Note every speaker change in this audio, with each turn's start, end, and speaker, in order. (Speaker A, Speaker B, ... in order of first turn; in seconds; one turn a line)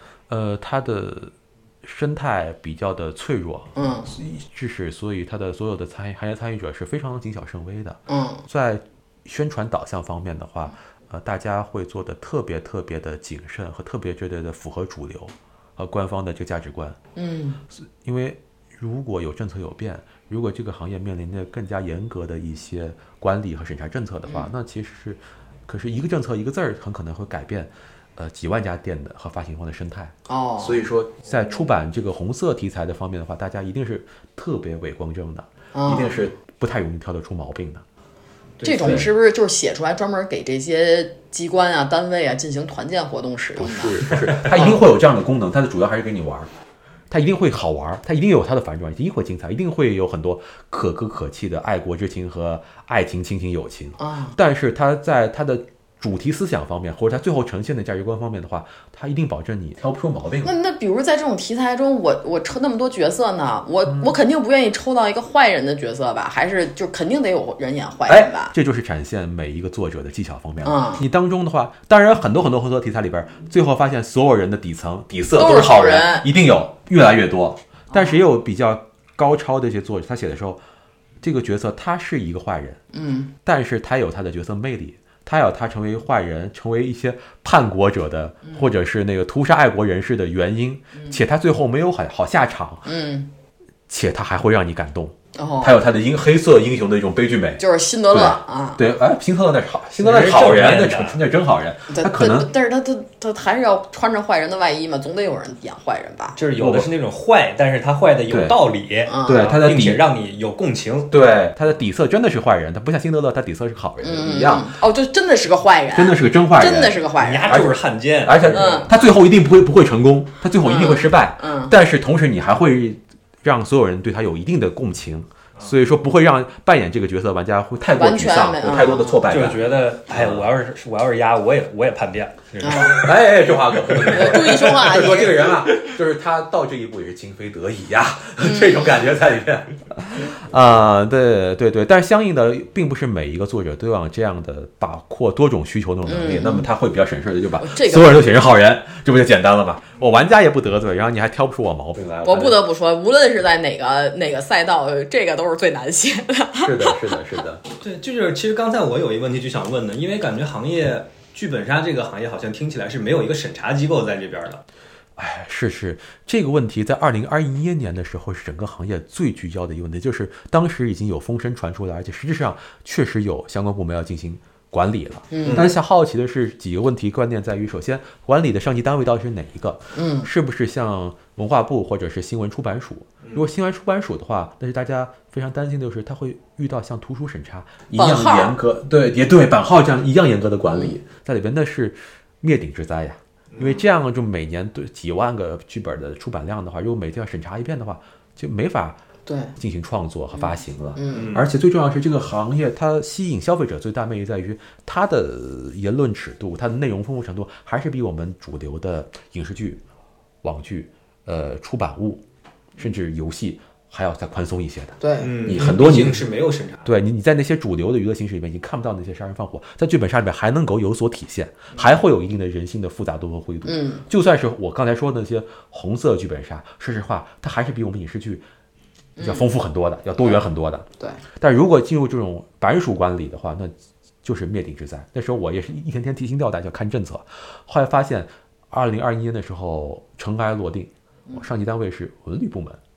Speaker A: 0.3-17.0
Speaker B: 3.8-4.1
Speaker B: 8.1-8.4
Speaker B: 17.1-17.6
Speaker A: 17.7-37.8
Speaker B: 30.3-30.8
Speaker B: 35.7-36.2
Speaker C: 38.6-39.0
Speaker B: 38.6-44.8
Speaker A: 38.8-39.1
Speaker A: 43.5-46.5
Speaker A: 47.1-60.5
Speaker B: 54.0-54.4
Speaker B: 60.4-68.5
Speaker A: 63.9-64.1
Speaker A: 68.1-80.6
Speaker B: 70.6-71.0
Speaker B: 75.3-76.3
Speaker B: 77.9-78.2
Speaker A: 81.2-82.8
Speaker B: 82.9-83.3
Speaker A: 83.4-92.9
Speaker B: 92.8-93.3
Speaker A: 93.9-102.5
Speaker B: 95.3-95.8
Speaker B: 97.6-98.8
Speaker C: 100.0-101.2
Speaker B: 101.9-106.4
Speaker C: 106.3-111.1
Speaker A: 106.6-106.9
Speaker A: 108.3-108.6
Speaker B: 109.1-109.5
Speaker A: 109.2-110.0
Speaker A: 111.1-114.7
Speaker B: 114.0-117.7
Speaker A: 115.9-130.5
Speaker C: 117.2-118.9
Speaker B: 118.5-118.9
Speaker B: 120.6-121.7
Speaker B: 127.9-129.2
Speaker C: 129.3-133.1
Speaker B: 132.6-133.0
Speaker A: 132.8-152.6
Speaker C: 133.7-135.8
Speaker B: 134.1-135.4
Speaker B: 138.4-138.9
Speaker B: 146.1-146.7
Speaker B: 147.6-148.3
Speaker B: 152.2-157.1
Speaker A: 156.6-157.6
Speaker C: 157.8-164.6
Speaker A: 165.2-199.0
Speaker B: 175.3-175.7
Speaker C: 175.4-175.7
Speaker B: 179.9-180.3
Speaker B: 187.9-188.6
Speaker C: 193.5-193.8
Speaker B: 199.2-199.5
Speaker A: 199.6-209.8
Speaker B: 200.9-201.3
Speaker C: 201.1-201.5
Speaker A: 210.4-212.2
Speaker A: 212.8-216.2
Speaker B: 215.0-215.3
Speaker C: 215.2-216.9
Speaker A: 216.8-228.4
Speaker B: 223.6-224.0
Speaker B: 229.2-229.4
Speaker A: 229.2-230.8
Speaker B: 230.2-230.4
Speaker A: 231.4-233.7
Speaker A: 234.2-242.8